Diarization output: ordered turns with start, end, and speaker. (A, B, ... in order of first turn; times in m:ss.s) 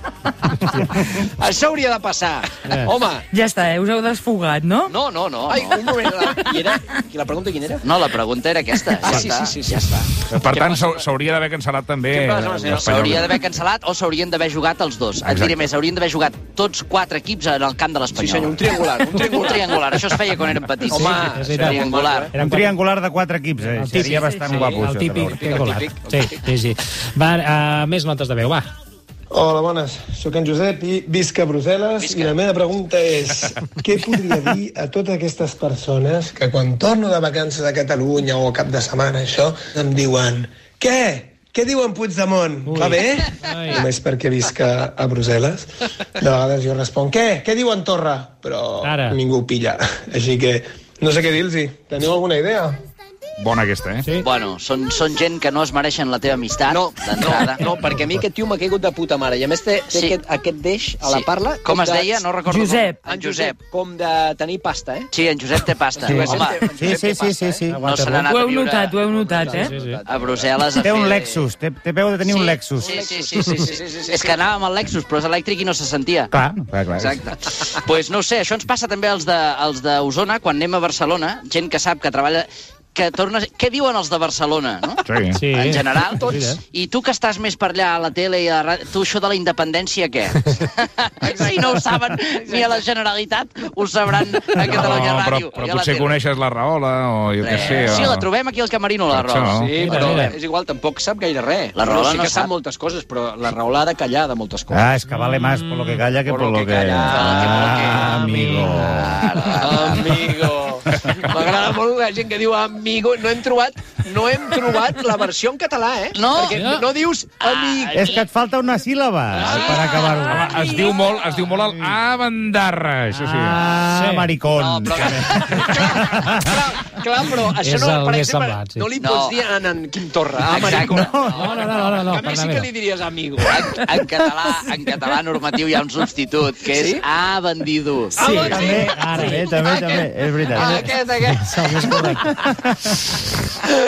0:01.0-0:03.3 A
0:02.7-0:02.9 B
0:03.3-0:05.0 C
0:05.0-0:06.3 D
0:05.4-0:07.8 A
0:07.8-0:10.1 D
0:09.0-0:10.8 A
0:10.3-0:13.4 E
0:12.1-0:13.2 A
0:12.8-0:22.3 D
0:15.2-0:15.6 E
0:18.1-0:19.8 A
0:20.9-0:22.8 B
0:20.9-0:22.3 A
0:22.4-0:25.6 F
0:23.8-0:28.7 B
0:25.3-0:26.4 A
0:29.3-0:32.0 G
0:29.4-0:43.0 A
0:32.0-0:32.3 D
0:32.6-0:45.6 G
0:42.7-0:43.9 B
0:43.7-0:45.6 A
0:46.2-0:52.7 G
0:47.1-0:50.5 A
0:48.8-0:49.2 B
0:51.0-0:52.7 A
0:53.4-0:54.1 E
0:54.2-0:57.7 D
0:56.7-1:02.2 A
0:59.9-1:00.2 D
1:01.0-1:03.6 D
1:02.5-1:03.0 C
1:03.1-1:05.1 A
1:05.1-1:06.7 D
1:05.9-1:07.7 A
1:06.1-1:07.8 F
1:07.7-1:08.3 B
1:07.8-1:09.0 D
1:08.2-1:09.8 C
1:09.1-1:10.7 A
1:09.6-1:10.0 B
1:10.0-1:11.5 D
1:10.8-1:13.0 F
1:12.2-1:16.3 D
1:12.8-1:14.4 A
1:16.3-1:16.6 F
1:16.7-1:17.2 E
1:17.0-1:36.2 D
1:25.0-1:25.4 E
1:25.4-1:26.6 B
1:31.3-1:31.8 A
1:32.4-1:32.8 A
1:34.6-1:38.3 E
1:37.4-1:40.4 D
1:39.1-1:39.9 E
1:39.6-1:44.9 A
1:39.8-1:40.3 B
1:41.7-1:42.6 D
1:44.7-1:49.2 F
1:46.2-1:48.4 A
1:46.9-1:50.3 D
1:48.3-1:48.7 B
1:49.6-1:58.2 A
1:56.1-1:56.8 D
1:56.5-1:56.8 B
1:57.4-1:58.2 D
1:57.9-2:00.6 F
1:59.4-2:03.6 E
1:59.8-2:01.3 C
2:03.1-2:06.6 F
2:03.3-2:04.3 B
2:04.5-2:06.2 D
2:04.9-2:11.2 A
2:07.6-2:08.9 B
2:09.0-2:09.5 D
2:10.4-2:11.9 D
2:10.9-2:11.5 F
2:11.3-2:12.7 B
2:11.8-2:13.6 A
2:13.4-2:18.7 D
2:16.6-2:17.0 A
2:18.2-2:22.2 A
2:18.2-2:19.4 B
2:18.3-2:20.8 F
2:21.3-2:22.2 B